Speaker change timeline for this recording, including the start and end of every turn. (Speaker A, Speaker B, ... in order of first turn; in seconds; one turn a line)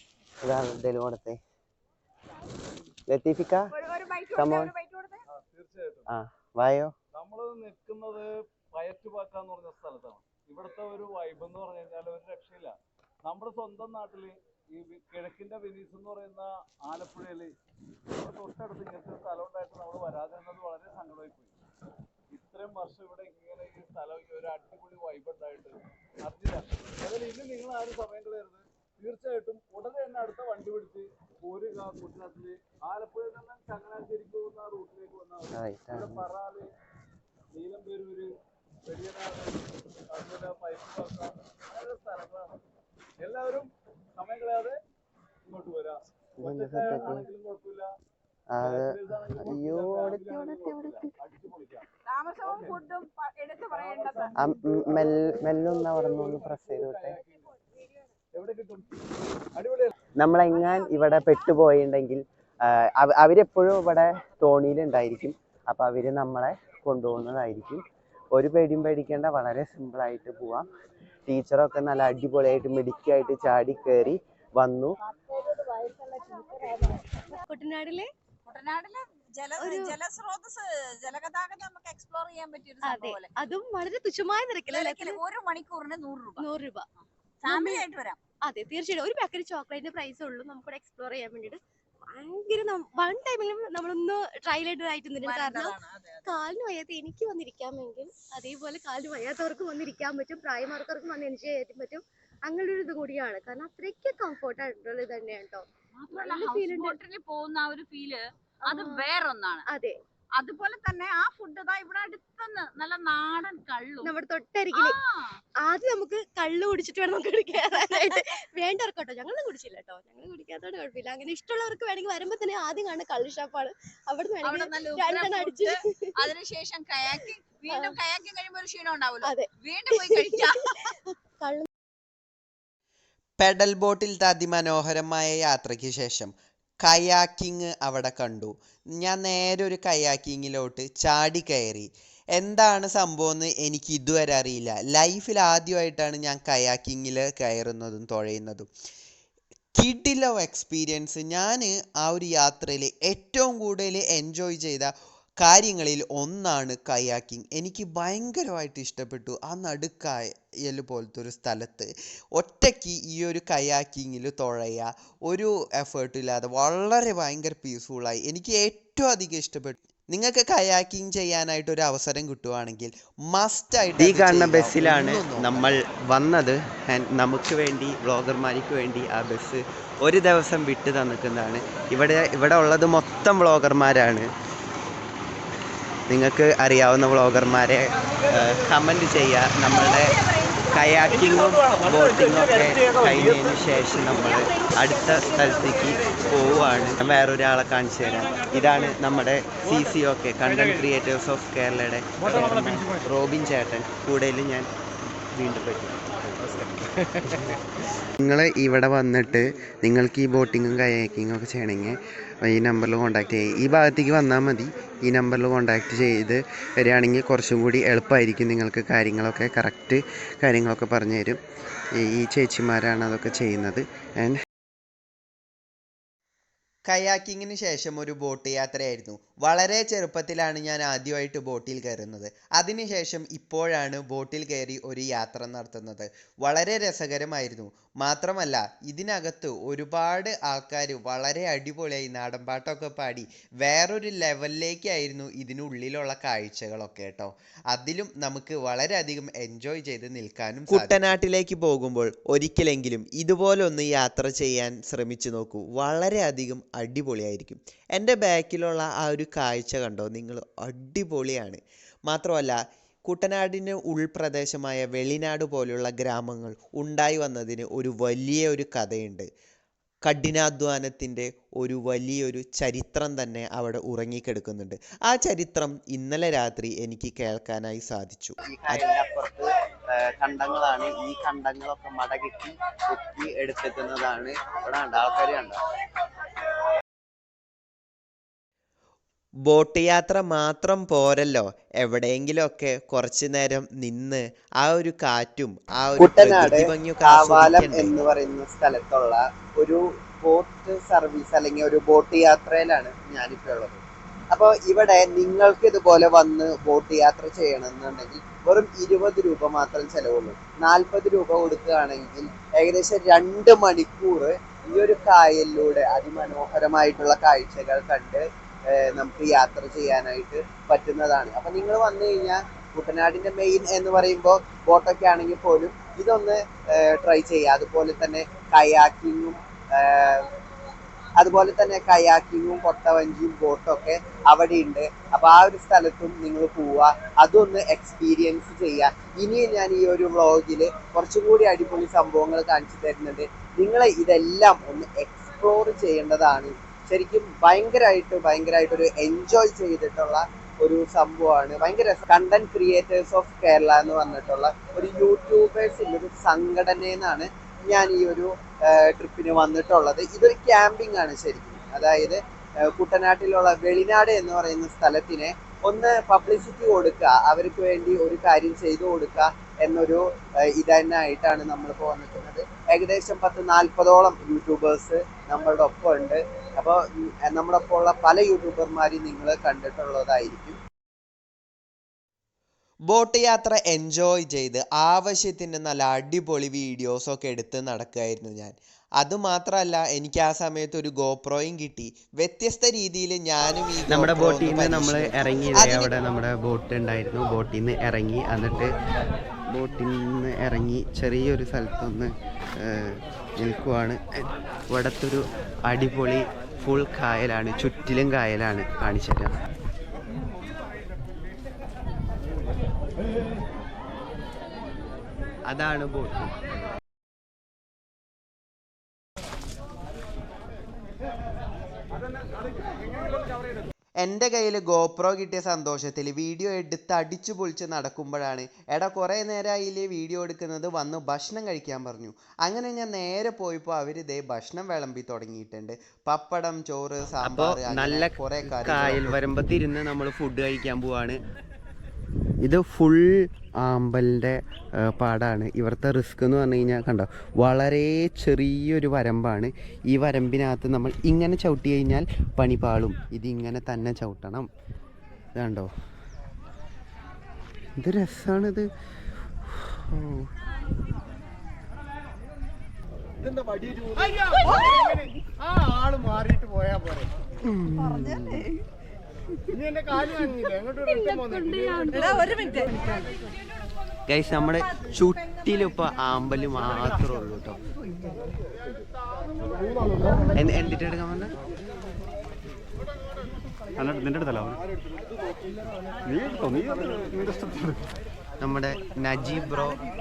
Speaker A: 0.4-1.4
Speaker A: 3.1-3.7
Speaker B: 3.7-5.2
Speaker A: 4.3-4.7
Speaker C: 5.3-6.1
Speaker A: 6.1-6.9
Speaker C: 7.1-17.5
Speaker C: 18.2-21.6
Speaker C: 22.3-36.7
Speaker A: 35.5-36.3
Speaker C: 37.5-38.3
Speaker C: 38.9-42.6
Speaker C: 43.2-44.8
Speaker C: 45.5-47.9
Speaker A: 46.4-47.3
Speaker A: 48.5-51.1
Speaker C: 48.6-51.9
Speaker B: 52.1-54.3
Speaker C: 52.4-52.8
Speaker C: 53.6-57.5
Speaker A: 54.4-57.2
Speaker C: 58.3-58.9
Speaker C: 59.5-59.9
Speaker A: 60.2-70.7
Speaker A: 71.3-74.9
Speaker B: 75.5-77.2
Speaker D: 77.4-78.1
Speaker B: 78.5-83.3
Speaker D: 79.6-80.0
Speaker D: 82.8-85.2
Speaker B: 84.7-86.5
Speaker D: 86.4-86.9
Speaker B: 87.4-88.2
Speaker D: 87.4-87.8
Speaker D: 88.4-107.0
Speaker B: 95.2-96.3
Speaker B: 106.0-109.7
Speaker D: 108.7-109.0
Speaker D: 109.7-110.0
Speaker B: 110.4-114.1
Speaker D: 114.0-115.0
Speaker B: 114.7-115.0
Speaker D: 115.6-126.3
Speaker B: 124.4-130.9
Speaker D: 127.7-128.0
Speaker D: 129.2-131.7
Speaker E: 133.4-148.7
Speaker E: 149.8-175.8
Speaker A: 174.0-184.3
Speaker A: 186.1-190.2
Speaker B: 189.8-190.7
Speaker A: 190.7-204.7
Speaker A: 205.3-207.6
Speaker A: 208.2-221.4
Speaker A: 222.0-224.4
Speaker E: 226.9-269.3
Speaker A: 250.7-251.1
Speaker E: 270.1-278.9
Speaker A: 278.4-285.6
Speaker E: 289.5-298.0
Speaker A: 296.0-303.8
Speaker A: 304.3-330.3
Speaker A: 331.2-380.6
Speaker E: 382.9-395.9
Speaker A: 393.9-398.7
Speaker A: 399.5-402.1
Speaker A: 402.6-409.3
Speaker A: 415.5-416.3
Speaker E: 424.0-439.2
Speaker A: 437.2-441.2
Speaker A: 442.4-454.5
Speaker A: 455.4-455.7
Speaker A: 457.8-458.7
Speaker A: 459.5-460.3
Speaker A: 467.4-468.5
Speaker B: 471.8-472.7
Speaker A: 474.1-477.6
Speaker A: 480.4-481.3
Speaker F: 483.8-484.6
Speaker F: 486.1-487.9
Speaker A: 488.4-489.8